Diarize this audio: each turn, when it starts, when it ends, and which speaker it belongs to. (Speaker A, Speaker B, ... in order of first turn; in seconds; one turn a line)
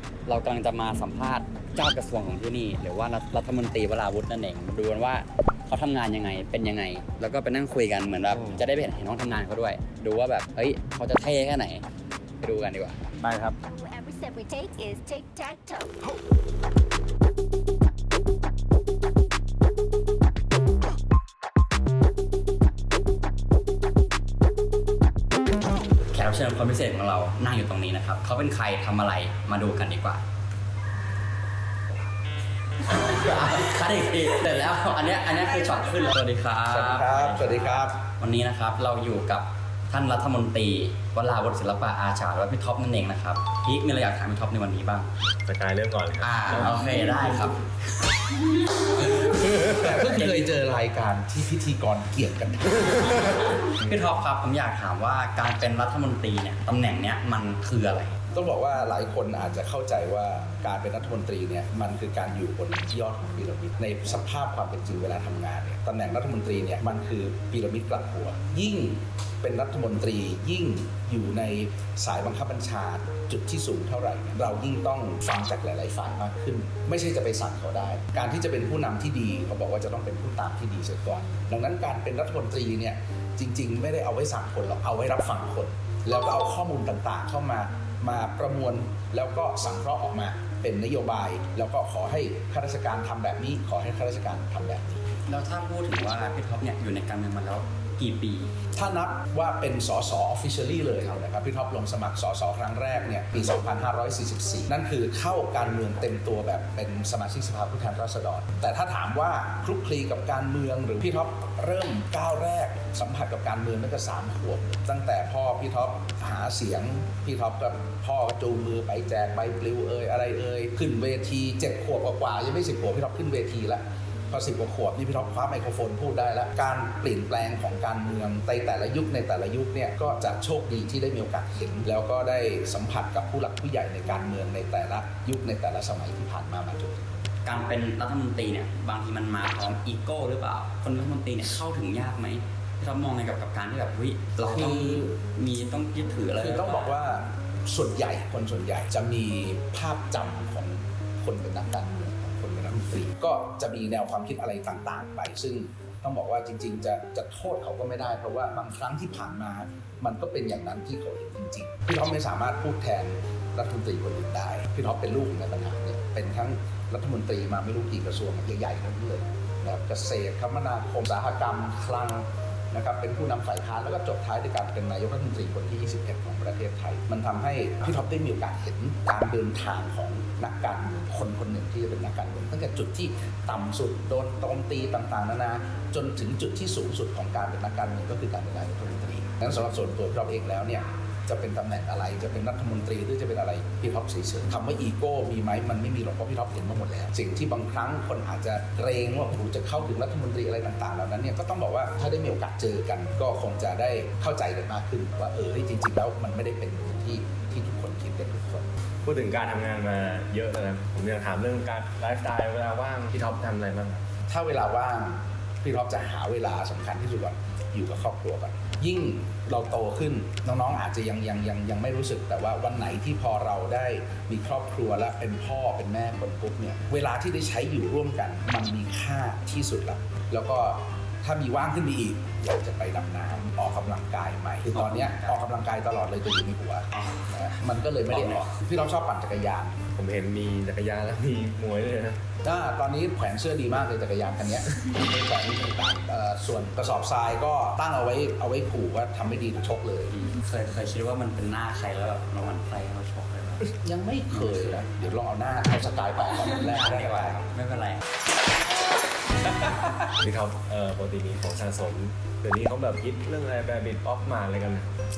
Speaker A: 0.2-11.8
Speaker A: 12.4-13.1
Speaker B: 13.3-13.5
Speaker C: 13.6-15.9
Speaker A: 26.1-30.2
Speaker A: 32.8-45.1
Speaker D: 36.7-38.0
Speaker B: 45.5-47.4
Speaker A: 46.2-47.6
Speaker A: 48.9-50.3
Speaker D: 49.5-53.5
Speaker A: 53.7-58.2
Speaker D: 58.3-95.0
Speaker A: 95.3-98.5
Speaker D: 98.7-137.2
Speaker A: 137.4-146.9
Speaker D: 144.4-145.2
Speaker D: 146.4-208.7
Speaker B: 209.0-214.0
Speaker D: 214.3-239.8
Speaker A: 234.7-235.4
Speaker A: 238.1-238.5
Speaker B: 239.9-242.2
Speaker D: 242.4-250.1
Speaker A: 250.1-253.7
Speaker D: 253.8-257.4
Speaker A: 254.3-254.9
Speaker A: 256.4-258.0
Speaker B: 260.2-264.9